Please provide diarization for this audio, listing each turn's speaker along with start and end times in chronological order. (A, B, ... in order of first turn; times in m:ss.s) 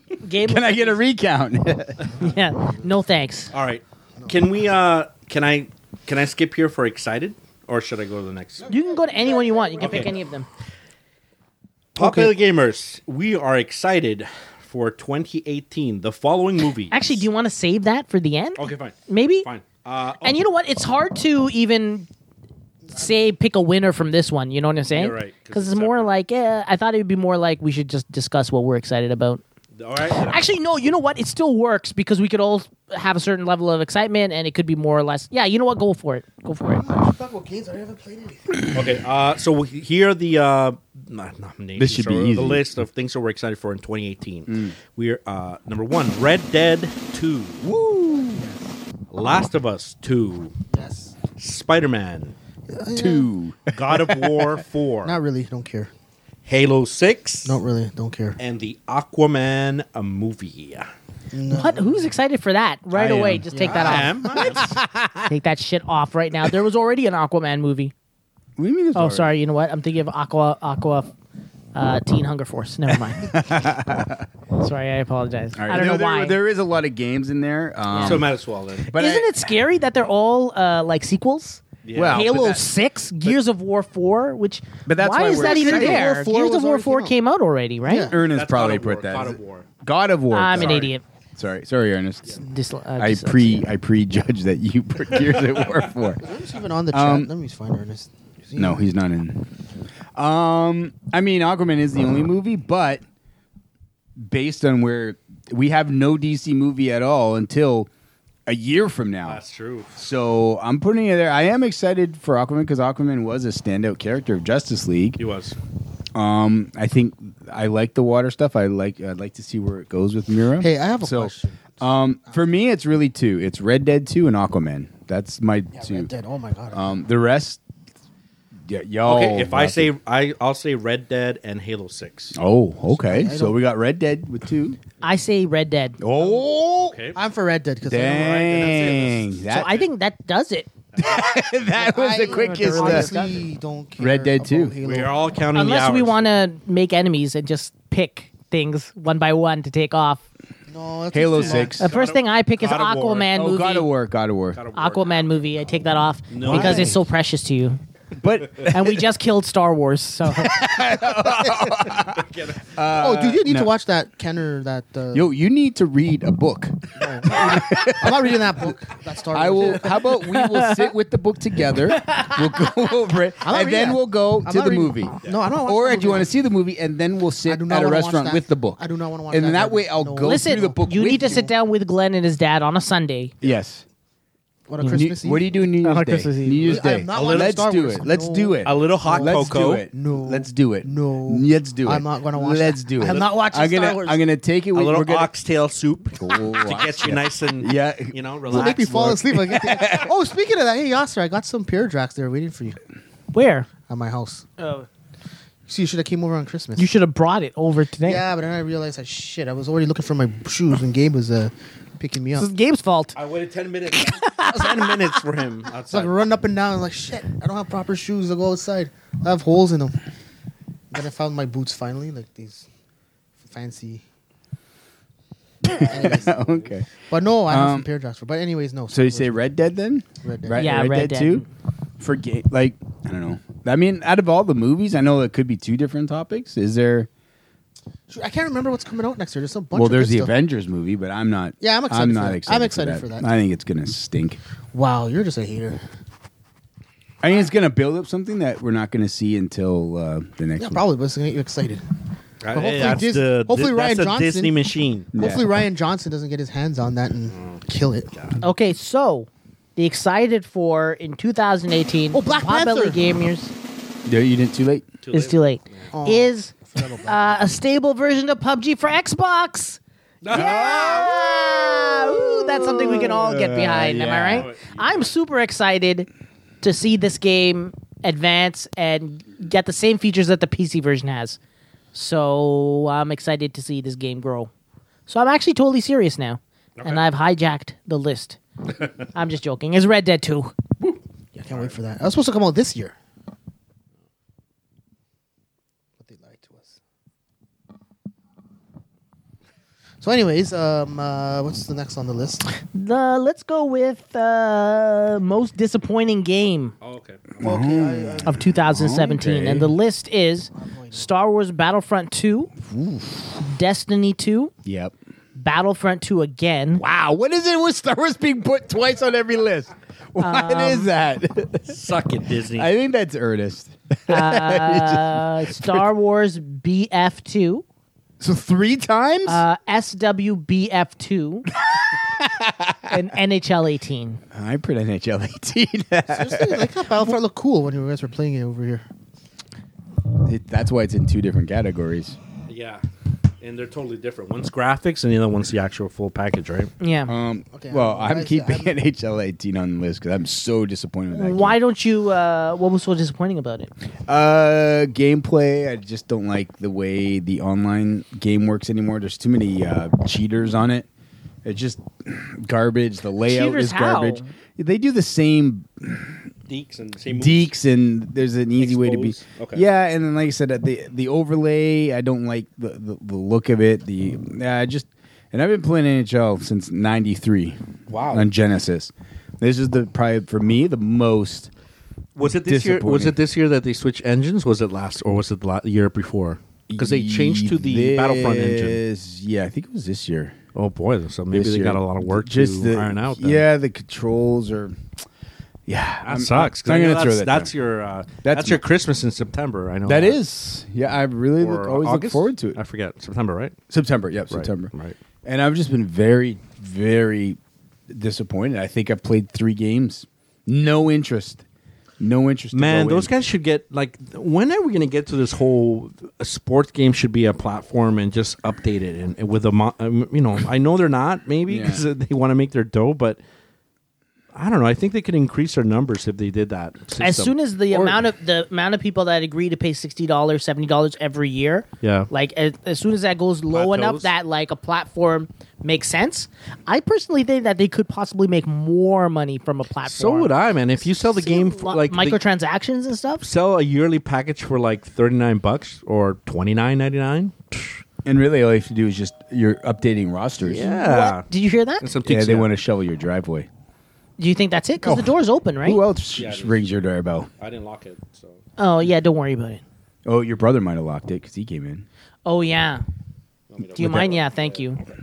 0:00.2-0:01.0 A
0:00.4-0:02.1 B
0:02.2-0:03.5 A
0:03.5-0:08.7 C
0:08.6-0:10.1 D
0:08.7-0:10.5 A
0:09.8-0:10.1 C
0:12.0-0:17.2 C
0:12.0-0:12.3 D
0:16.9-0:19.5 A
0:18.6-0:20.4 C
0:20.2-0:22.1 A
0:22.9-0:29.4 A
0:24.9-0:26.1 C
0:29.8-0:30.5 C
0:30.2-0:36.8 A
0:36.8-0:38.6 D
0:38.7-0:47.6 C
0:41.8-0:42.6 B
0:44.5-0:44.8 B
0:47.6-0:48.6 B
0:49.1-0:50.5 C
0:50.7-0:51.2 D
0:51.4-0:52.3 C
0:52.7-0:53.3 D
0:52.9-0:54.6 B
0:53.7-0:55.2 C
0:55.0-0:55.9 D
0:56.5-0:57.6 C
0:57.4-0:58.4 D
0:58.4-1:00.9 C
1:01.3-1:02.1 D
1:01.5-1:04.6 A
1:03.0-1:04.7 C
1:03.5-1:04.4 D
1:04.4-1:05.3 B
1:05.3-1:07.9 A
1:08.6-1:09.3 B
1:09.0-1:11.1 A
1:11.8-1:13.3 A
1:13.2-1:14.3 B
1:14.6-1:16.4 A
1:15.6-1:18.3 B
1:17.9-1:18.2 A
1:18.0-1:18.9 C
1:18.9-1:19.3 B
1:18.9-1:28.1 A
1:21.8-1:22.6 C
1:22.0-1:22.6 B
1:24.9-1:26.1 B
1:25.3-1:27.2 D
1:27.8-1:28.2 D
1:28.1-1:32.4 B
1:28.3-1:29.7 C
1:30.3-1:31.0 A
1:30.5-1:30.9 C
1:32.4-1:33.7 A
1:33.0-1:36.3 B
1:35.2-1:35.9 C
1:36.2-1:38.8 D
1:36.9-1:37.3 B
1:38.6-1:39.5 B
1:40.2-1:43.0 B
1:44.2-1:47.9 B
1:48.5-1:49.4 B
1:49.3-1:50.0 C
1:50.0-1:55.2 B
1:55.2-1:55.6 C
1:56.2-2:06.1 B
2:00.6-2:01.8 D
2:05.7-2:06.9 D
2:06.7-2:07.6 B
2:08.7-2:09.9 B
2:09.0-2:12.4 C
2:12.3-2:14.8 B
2:12.9-2:13.6 D
2:15.0-2:16.0 A
2:16.0-2:17.0 B
2:16.8-2:17.2 C
2:17.1-2:18.8 D
2:17.9-2:19.8 B
2:18.2-2:19.6 C
2:19.5-2:20.7 A
2:20.9-2:21.3 C
2:21.0-2:23.1 B
2:21.8-2:25.2 D
2:22.2-2:23.4 A
2:24.0-2:24.8 B
2:24.8-2:26.2 C
2:25.5-2:30.2 A
2:30.7-2:31.8 D
2:31.1-2:31.9 B
2:31.3-2:33.3 C
2:31.8-2:33.9 A
2:33.3-2:34.6 B
2:34.6-2:35.3 C
2:34.8-2:37.8 A
2:36.3-2:37.0 C
2:36.4-2:37.0 B
2:38.2-2:39.1 B
2:38.6-2:40.6 A
2:40.3-2:43.7 B
2:42.2-2:42.6 C
2:42.9-2:45.3 D
2:45.1-2:48.8 B
2:47.0-2:50.1 D
2:49.3-3:01.5 B
2:50.3-2:50.9 A
2:51.9-2:52.5 A
2:53.4-2:56.3 D
2:57.5-3:01.5 D
3:00.2-3:03.3 A
3:03.4-3:03.8 B
3:04.7-3:05.5 D
3:04.9-3:15.3 B
3:05.8-3:06.8 A
3:06.6-3:14.2 D
3:07.1-3:07.7 C
3:08.6-3:09.9 C
3:14.7-3:19.2 C
3:16.2-3:20.1 B
3:18.5-3:22.8 D
3:23.3-3:23.7 A
3:23.9-3:24.5 D
3:24.6-3:24.9 A
3:25.7-3:26.9 D
3:26.8-3:28.2 A
3:28.0-3:32.5 D
3:32.4-3:33.2 A
3:33.2-3:36.1 C
3:34.0-3:35.0 A
3:35.9-3:40.0 D
3:40.9-3:42.6 D
3:43.4-3:44.0 D
3:45.6-3:47.9 B
3:45.7-3:46.5 D
3:47.1-3:49.4 D
3:48.9-3:51.4 B
3:50.2-3:50.8 D
3:50.6-3:51.5 A
3:52.0-3:57.1 B
3:58.1-4:00.3 D
3:59.7-4:04.4 B
4:01.6-4:03.3 D
4:04.7-4:05.8 D
4:07.2-4:10.9 B
4:10.6-4:11.8 D
4:12.4-4:15.1 C
4:12.5-4:14.6 D
4:15.2-4:15.6 B
4:15.2-4:18.1 D
4:17.3-4:18.4 C
4:18.4-4:23.5 A
4:22.1-4:23.0 D
4:24.1-4:24.9 B
4:25.0-4:25.9 C
4:25.1-4:26.5 A
4:25.9-4:27.3 D
4:27.1-4:29.8 A
4:30.2-4:31.1 C
4:30.3-4:34.5 B
4:30.3-4:36.1 A
4:34.3-4:35.1 C
4:36.6-4:41.4 A
4:41.9-4:44.5 A
4:45.1-4:48.4 A
4:46.8-4:47.0 C
4:49.1-4:50.6 A
4:51.4-4:53.0 D
4:51.5-4:51.8 C
4:56.0-4:56.8 D
5:00.0-5:02.4 D
5:02.7-5:06.7 A
5:06.8-5:07.6 C
5:07.4-5:09.7 B
5:07.4-5:08.4 D
5:08.2-5:12.5 A
5:10.6-5:11.1 D
5:12.6-5:13.3 B
5:13.4-5:14.5 A
5:14.6-5:14.9 B
5:15.4-5:16.8 A
5:16.8-5:21.8 B
5:20.2-5:20.9 A
5:21.7-5:22.7 C
5:22.6-5:25.9 B
5:24.1-5:27.6 A
5:28.2-5:29.4 B
5:29.3-5:31.5 A
5:31.6-5:33.0 B
5:32.9-5:34.2 A
5:34.3-5:36.7 B
5:36.1-5:38.8 D
5:40.2-5:42.2 B
5:42.5-5:42.8 C
5:43.4-5:46.7 C
5:46.8-5:47.1 A
5:47.1-5:51.6 B
5:47.5-5:48.8 D
5:51.1-5:53.7 A
5:54.1-6:00.9 B
6:01.4-6:06.3 B
6:03.3-6:04.3 A
6:06.5-6:07.5 C
6:07.1-6:21.5 B
6:08.6-6:09.6 C
6:17.9-6:18.3 C
6:22.2-6:28.8 C
6:22.2-6:23.2 B
6:26.7-6:30.4 B
6:30.6-6:33.4 C
6:31.3-6:34.8 B
6:35.7-6:37.5 B
6:36.0-6:40.2 C
6:38.2-6:38.6 B
6:39.9-6:42.6 B
6:41.4-6:43.6 C
6:43.7-6:44.7 B
6:44.3-6:45.0 C
6:45.2-6:51.4 B
6:52.0-6:53.1 B
6:52.5-7:03.2 C
7:01.5-7:01.8 B
7:04.4-7:08.0 C
7:07.0-7:20.3 A
7:11.8-7:12.1 C
7:13.5-7:14.1 C
7:19.9-7:22.2 C
7:20.8-7:23.3 A
7:23.2-7:27.7 C
7:28.0-7:30.8 B
7:30.5-7:31.2 C
7:30.7-7:31.8 A
7:31.8-7:32.5 C
7:32.0-7:33.5 B
7:34.2-7:35.8 A
7:34.8-7:37.3 B
7:36.2-7:36.6 C
7:37.4-7:38.4 C
7:38.6-7:39.6 A
7:40.1-7:41.9 B
7:42.3-7:42.8 A
7:43.5-7:44.9 C
7:43.8-7:44.8 A